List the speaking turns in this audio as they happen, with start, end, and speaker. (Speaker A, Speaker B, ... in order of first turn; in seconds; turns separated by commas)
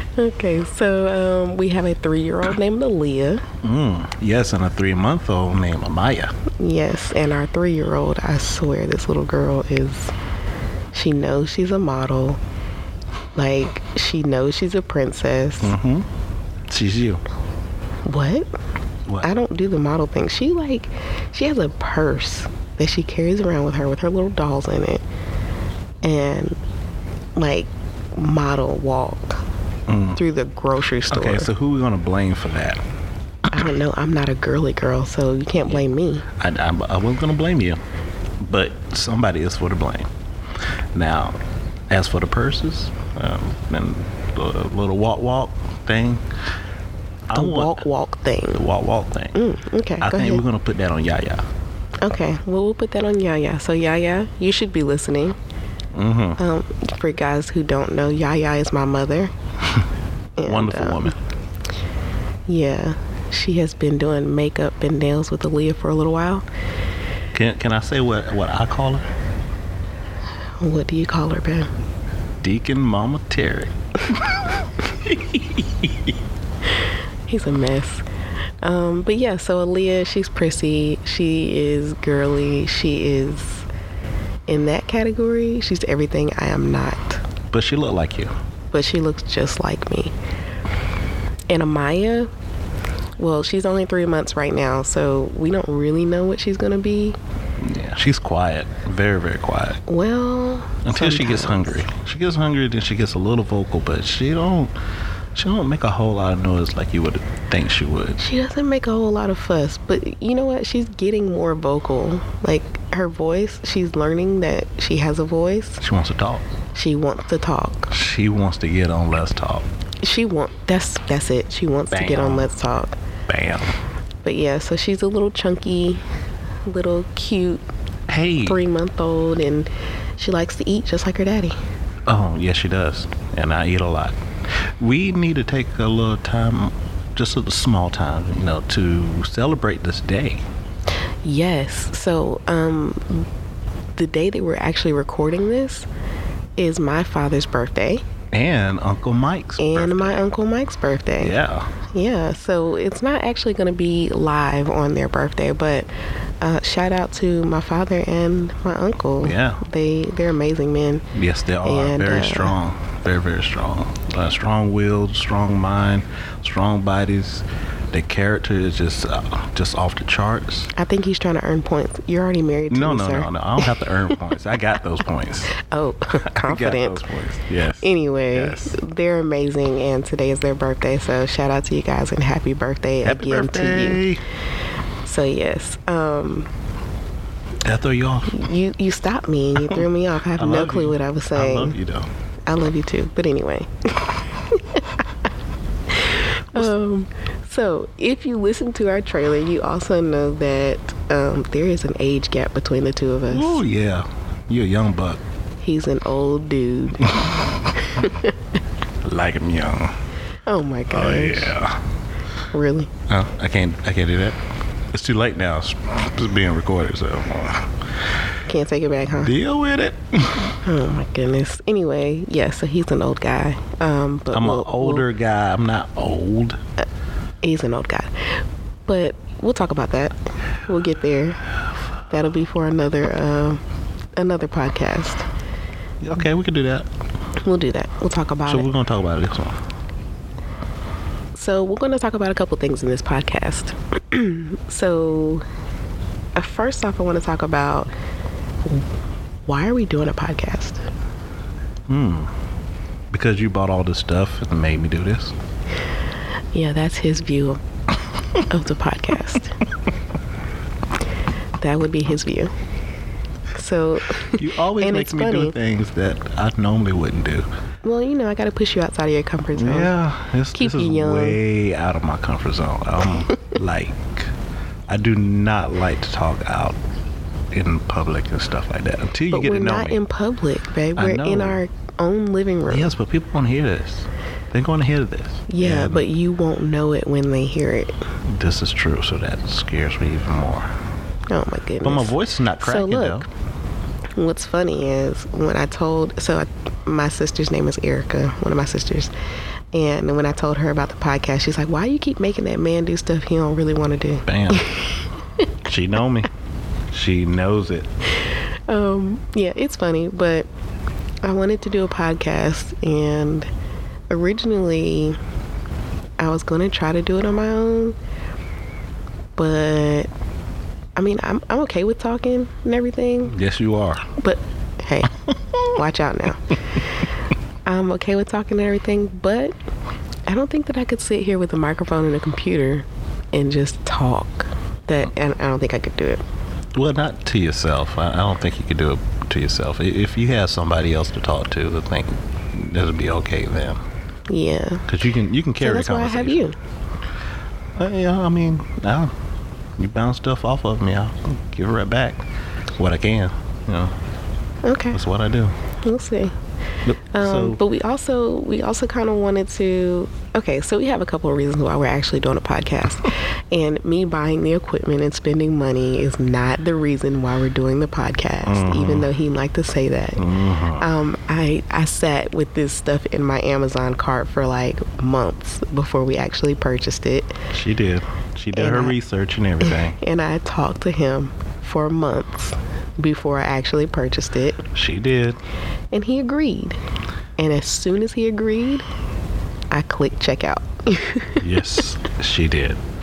Speaker A: 0.2-3.5, Speaker B: 3.6-6.3, Speaker A: 6.6-10.1, Speaker A: 10.9-12.4, Speaker A: 13.3-15.8, Speaker B: 15.6-16.1, Speaker B: 16.7-17.2, Speaker A: 18.1-18.5, Speaker A: 19.2-25.0, Speaker A: 26.0-26.6, Speaker A: 27.4-29.4, Speaker B: 29.9-30.2, Speaker A: 30.2-31.5, Speaker B: 31.1-32.8, Speaker A: 33.5-36.2, Speaker B: 36.4-37.8, Speaker B: 38.4-40.1, Speaker B: 41.0-41.4, Speaker B: 41.9-46.2, Speaker B: 47.3-47.8, Speaker A: 47.3-48.6, Speaker B: 48.5-49.4, Speaker A: 49.3-50.4, Speaker B: 50.0-51.4, Speaker A: 52.0-55.4, Speaker B: 55.9-56.4, Speaker A: 56.4-59.3, Speaker A: 60.4-61.1, Speaker B: 60.4-61.1, Speaker A: 62.5-66.5, Speaker B: 67.3-69.1, Speaker A: 70.6-71.7, Speaker B: 72.4-75.9, Speaker A: 77.3-78.1, Speaker A: 78.6-83.7, Speaker A: 84.5-87.2, Speaker B: 87.5-88.3, Speaker A: 88.7-90.1, Speaker A: 91.5-92.3, Speaker A: 93.2-97.2, Speaker B: 97.6-99.8, Speaker A: 99.9-101.8, Speaker B: 100.8-104.7, Speaker B: 105.3-108.2, Speaker A: 108.2-115.8, Speaker B: 115.8-116.5, Speaker A: 116.7-117.9, Speaker B: 117.9-119.7, Speaker A: 120.0-123.0, Speaker B: 121.9-122.5, Speaker B: 123.3-123.7, Speaker A: 124.2-126.0, Speaker A: 126.7-127.6, Speaker B: 128.1-128.6, Speaker A: 128.4-131.6, Speaker B: 132.1-134.2, Speaker B: 134.8-140.5, Speaker A: 141.2-143.3, Speaker A: 144.0-145.9, Speaker A: 146.6-148.0, Speaker B: 148.3-150.3, Speaker A: 149.6-151.3, Speaker B: 151.2-151.7, Speaker A: 151.9-155.9, Speaker A: 156.4-161.1, Speaker B: 159.2-159.6, Speaker B: 161.1-170.7, Speaker A: 161.6-162.6, Speaker A: 170.8-174.4, Speaker B: 172.7-175.5, Speaker A: 175.5-177.1, Speaker B: 176.2-178.8, Speaker A: 177.8-184.0, Speaker B: 183.0-184.2, Speaker A: 185.1-186.5, Speaker B: 187.7-188.5, Speaker A: 188.3-191.8, Speaker B: 189.6-192.1, Speaker A: 192.5-195.0, Speaker A: 196.0-203.6, Speaker B: 203.3-205.2, Speaker A: 205.6-207.1, Speaker A: 207.8-208.3, Speaker B: 209.0-209.9, Speaker A: 210.5-211.5, Speaker B: 210.9-211.8, Speaker A: 212.5-212.9, Speaker B: 213.1-214.4, Speaker B: 214.9-217.7, Speaker A: 218.5-219.3, Speaker B: 219.1-220.6, Speaker A: 220.7-225.1, Speaker B: 224.3-226.6, Speaker A: 227.4-230.1, Speaker A: 230.7-231.4, Speaker A: 232.1-233.6, Speaker A: 234.2-235.3, Speaker B: 236.0-236.9, Speaker A: 237.4-238.7, Speaker B: 238.5-239.6, Speaker A: 241.3-245.4, Speaker A: 246.4-247.9, Speaker A: 249.5-250.9, Speaker B: 251.9-252.3, Speaker B: 253.1-255.3, Speaker A: 256.5-257.6, Speaker A: 258.5-259.5, Speaker A: 261.6-262.5, Speaker A: 263.5-265.6, Speaker B: 264.4-267.5, Speaker A: 267.8-269.9, Speaker B: 269.6-274.3, Speaker A: 270.5-271.4, Speaker B: 274.9-276.8, Speaker B: 277.5-280.0, Speaker A: 279.3-282.9, Speaker B: 281.0-281.6, Speaker B: 282.7-286.1, Speaker A: 285.5-287.9, Speaker B: 288.2-290.7, Speaker A: 291.3-293.3, Speaker B: 291.8-293.3, Speaker A: 294.2-299.1, Speaker A: 299.7-305.1, Speaker B: 304.3-304.7, Speaker B: 305.7-306.3, Speaker B: 306.9-307.9, Speaker A: 308.7-310.5, Speaker A: 311.2-313.5, Speaker A: 314.1-315.2, Speaker A: 316.2-318.0, Speaker A: 319.4-320.1, Speaker A: 321.0-323.4, Speaker B: 323.3-324.1, Speaker A: 324.2-325.1, Speaker B: 325.3-325.7, Speaker A: 325.7-326.8, Speaker A: 327.7-329.6, Speaker A: 330.3-336.2, Speaker B: 336.7-343.8, Speaker A: 344.3-344.9, Speaker B: 344.9-346.5, Speaker A: 345.6-346.6, Speaker B: 347.8-349.1, Speaker B: 349.8-352.2, Speaker B: 352.8-353.9, Speaker A: 354.6-355.0, Speaker B: 354.9-355.6, Speaker A: 355.8-356.3, Speaker B: 356.9-357.6, Speaker A: 357.1-370.3, Speaker B: 368.4-369.1, Speaker B: 370.2-370.9, Speaker A: 370.8-377.4, Speaker B: 377.5-380.0, Speaker A: 378.5-379.0, Speaker A: 379.7-384.6, Speaker B: 384.7-385.4, Speaker A: 385.9-386.8, Speaker A: 387.4-388.9, Speaker A: 389.7-391.4, Speaker B: 391.4-392.8